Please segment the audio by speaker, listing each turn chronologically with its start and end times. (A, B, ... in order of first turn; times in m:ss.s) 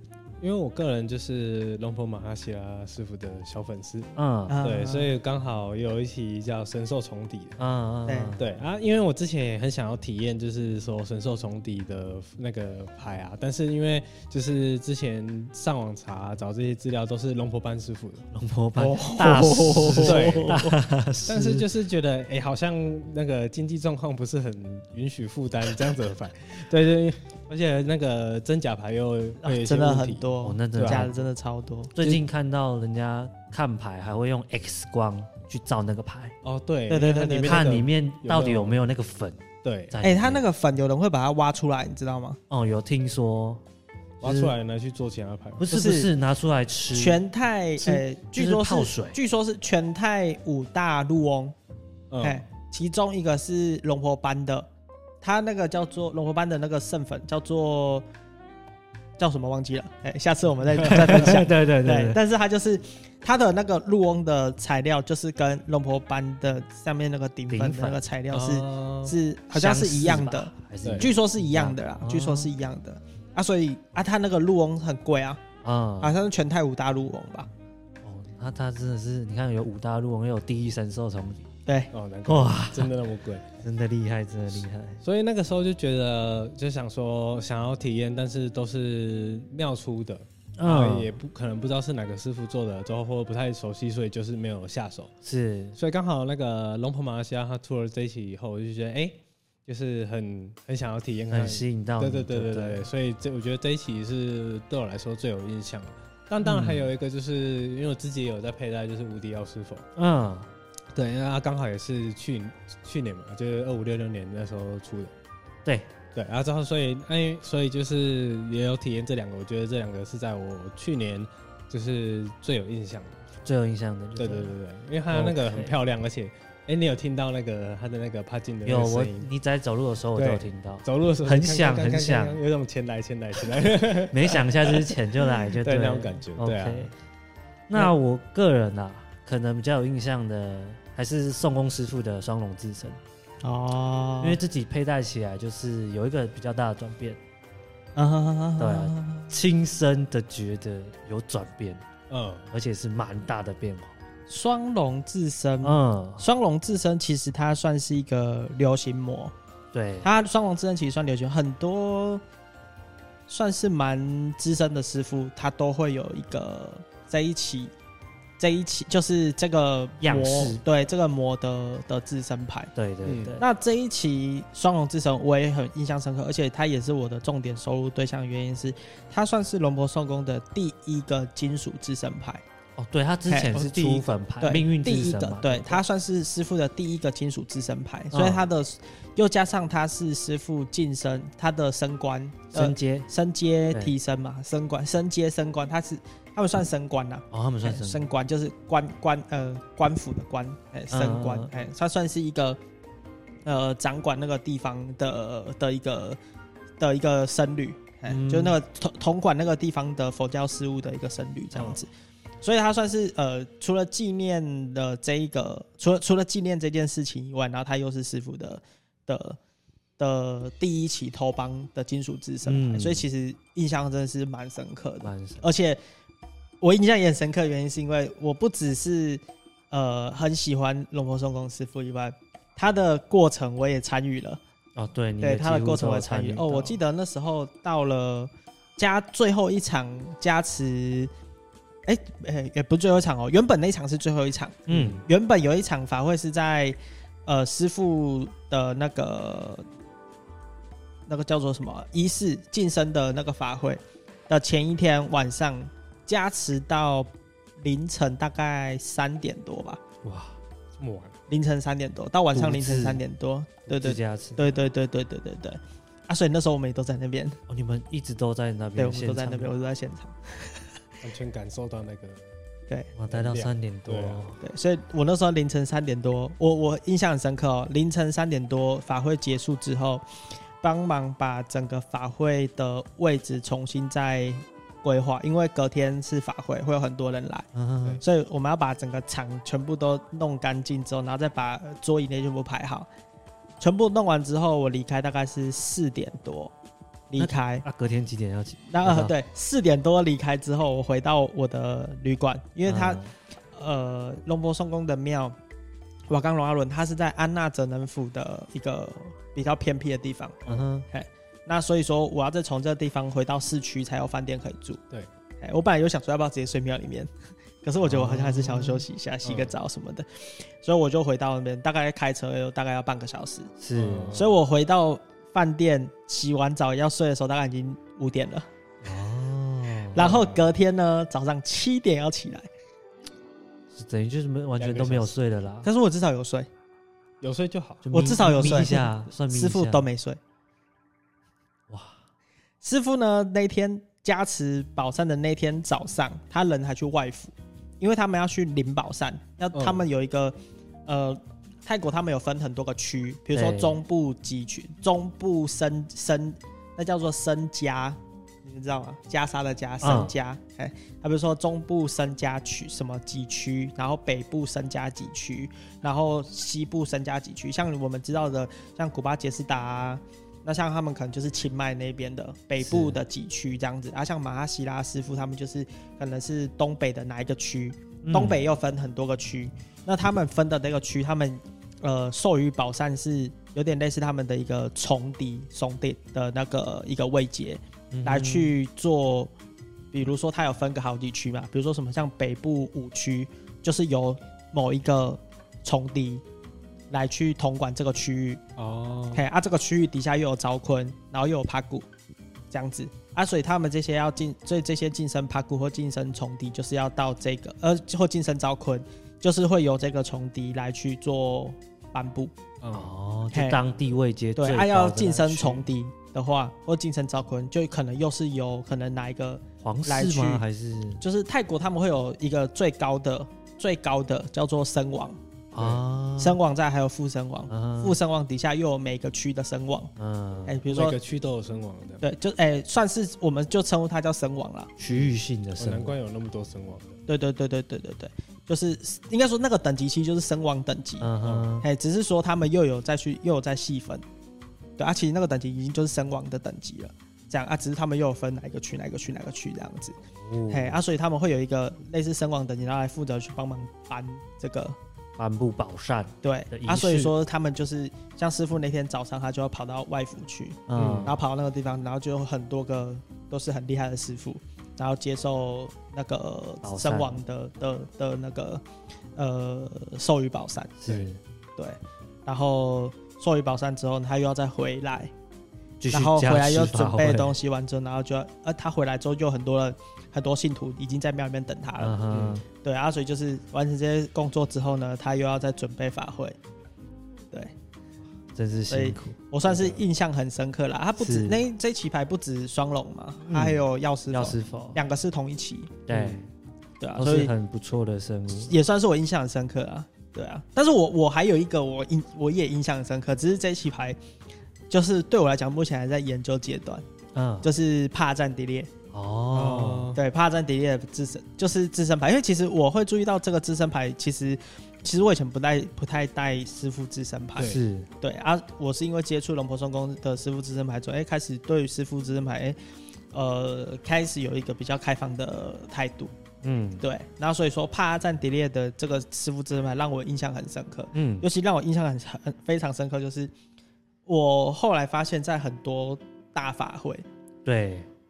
0:00.4-0:04.1 A
0:04.2-0:04.6 B
0:04.5-0:05.1 C
0:04.6-0:07.6 A
0:07.6-0:08.4 B
0:08.1-0:08.4 C
0:08.4-0:18.2 A
0:18.3-0:21.7 B
0:18.8-0:20.6 A
0:19.0-0:20.7 C
0:21.3-0:31.1 A
0:29.4-0:31.9 C
0:30.4-0:31.2 B
0:32.0-0:36.4 B
0:36.4-0:38.8 A
0:36.9-0:37.6 C
0:37.4-0:40.4 B
0:39.6-0:40.0 A
0:40.0-0:42.4 C
0:42.5-0:43.6 B
0:44.2-0:44.5 B
0:44.2-0:45.7 A
0:45.6-0:47.2 B
0:45.7-0:46.1 C
0:46.9-0:51.5 C
0:47.8-0:49.2 B
0:52.1-0:52.4 A
0:52.2-0:54.7 C
0:55.2-0:58.0 C
0:59.2-1:15.4 C
1:00.8-1:01.3 A
1:00.9-1:02.2 B
1:07.5-1:08.0 B
1:08.3-1:09.2 A
1:09.5-1:12.5 B
1:10.8-1:11.1 A
1:15.6-1:16.2 B
1:16.0-1:17.5 C
1:18.0-1:21.5 B
1:21.7-1:21.9 C
1:21.9-1:23.5 A
1:22.3-1:22.9 B
1:23.6-1:25.0 B
1:25.0-1:35.1 A
1:30.6-1:31.2 B
1:35.2-1:35.8 B
1:35.8-1:49.9 A
1:41.3-1:42.8 B
1:46.4-1:46.9 B
1:50.0-1:50.5 B
1:51.0-1:55.1 A
1:55.6-1:55.9 B
1:56.2-2:03.2 A
2:03.4-2:04.5 B
2:04.2-2:09.3 A
2:05.1-2:05.7 B
2:08.6-2:12.4 B
2:10.2-2:15.0 A
2:14.1-2:16.9 B
2:15.5-2:16.9 A
2:17.7-2:23.0 B
2:23.4-2:24.4 C
2:24.2-2:27.2 B
2:28.0-2:29.3 C
2:28.6-2:31.8 B
2:32.1-2:32.5 A
2:32.5-2:34.0 B
2:34.3-2:39.3 C
2:35.6-2:36.2 B
2:39.7-2:40.1 B
2:40.0-2:42.2 C
2:43.3-2:47.7 C
2:48.4-2:52.7 C
2:50.0-2:50.6 B
2:52.8-2:53.4 B
2:53.0-2:53.4 A
2:53.4-3:02.4 C
3:02.8-3:05.8 B
3:03.3-3:22.6 C
3:08.1-3:08.4 B
3:12.5-3:13.1 B
3:17.3-3:18.1 B
3:20.9-3:21.5 B
3:23.5-3:26.2 C
3:26.8-3:31.9 C
3:28.1-3:28.6 B
3:32.4-3:39.4 C
3:40.0-3:45.8 C
3:42.4-3:43.1 B
3:45.0-3:45.5 B
3:46.6-3:54.4 C
3:54.8-3:56.8 B
3:55.2-4:01.1 C
4:01.9-4:09.7 C
4:04.7-4:05.0 B
4:11.1-4:17.1 C
4:17.6-4:19.8 C
4:20.0-4:20.4 B
4:20.8-4:21.2 A
4:21.3-4:27.4 C
4:22.3-4:23.0 B
4:23.7-4:24.5 B
4:27.5-4:29.5 B
4:28.8-4:30.6 C
4:31.0-4:32.3 A
4:33.0-4:34.4 B
4:33.1-4:34.2 A
4:34.4-4:40.0 C
4:40.6-4:47.5 C
4:47.6-4:48.0 B
4:48.0-4:52.9 C
4:53.6-4:56.5 C
4:57.1-4:57.6 C
4:57.2-4:59.1 B
4:58.7-5:03.0 C
5:02.7-5:03.1 B
5:03.5-5:05.4 C
5:06.1-5:14.8 C
5:10.5-5:10.9 B
5:15.4-5:17.1 C
5:17.6-5:23.5 C
5:17.8-5:18.8 B
5:19.2-5:19.6 A
5:23.6-5:24.2 B
5:23.8-5:24.4 A
5:24.1-5:28.5 C
5:28.8-5:30.1 B
5:29.9-5:32.5 C
5:30.0-5:30.4 A
5:33.7-5:35.7 B
5:34.6-5:35.1 A
5:35.6-5:36.5 C
5:37.2-5:37.9 A
5:37.8-5:39.8 B
5:37.9-5:40.2 C
5:41.7-5:42.0 B
5:42.6-6:29.3 C
5:49.5-5:49.9 A
5:53.3-5:53.8 B
5:59.8-6:00.1 B
6:12.6-6:13.0 B
6:18.0-6:18.4 B
6:27.9-6:28.5 B
6:29.9-6:36.2 C
6:36.9-6:38.4 C
6:38.6-6:39.3 A
6:39.1-6:41.9 C
6:42.5-6:52.3 C
6:52.6-6:52.9 A
6:52.7-6:55.6 B
6:53.3-6:53.6 C
6:54.4-7:00.4 C
6:59.6-7:01.0 B
7:01.0-7:05.2 C
7:05.5-7:06.4 B
7:05.6-7:05.8 A
7:06.2-7:09.9 C
7:07.5-7:08.0 B
7:10.0-7:10.6 B
7:10.5-7:11.0 C
7:10.7-7:12.0 A
7:12.0-7:14.7 C
7:14.8-7:16.0 B
7:14.9-7:17.0 A
7:17.1-7:24.0 C
7:21.0-7:21.7 B
7:21.2-7:21.5 A
7:24.8-7:30.0 C
7:30.2-7:30.8 B
7:30.5-7:34.8 C
7:35.2-7:37.1 B
7:36.2-7:48.6 C
7:40.7-7:41.2 B
7:40.8-7:41.2 A
7:46.6-7:47.2 B
7:49.2-7:50.8 C
7:50.8-7:51.2 B
7:51.6-7:55.1 C
7:55.8-7:57.4 B
7:55.9-8:02.0 C
8:01.8-8:02.4 B
8:02.1-8:02.4 A
8:02.5-8:06.4 C
8:08.4-8:09.2 B
8:08.7-8:15.8 C
8:09.5-8:09.8 A
8:11.0-8:11.4 B
8:13.2-8:13.6 B
8:14.1-8:14.8 B
8:15.9-8:16.2 B
8:15.9-8:16.3 A
8:16.8-8:17.3 C
8:17.0-8:18.5 B
8:18.4-8:24.0 C
8:24.7-8:26.8 C
8:27.1-8:27.5 B
8:27.4-8:28.7 C
8:28.9-8:29.9 B
8:29.3-8:30.0 A
8:30.0-8:42.6 C
8:37.4-8:37.9 B
8:43.1-8:46.1 C
8:46.4-8:46.8 B
8:46.8-8:53.3 C
8:50.9-8:51.3 B
8:54.1-8:57.0 C
8:57.4-8:57.9 B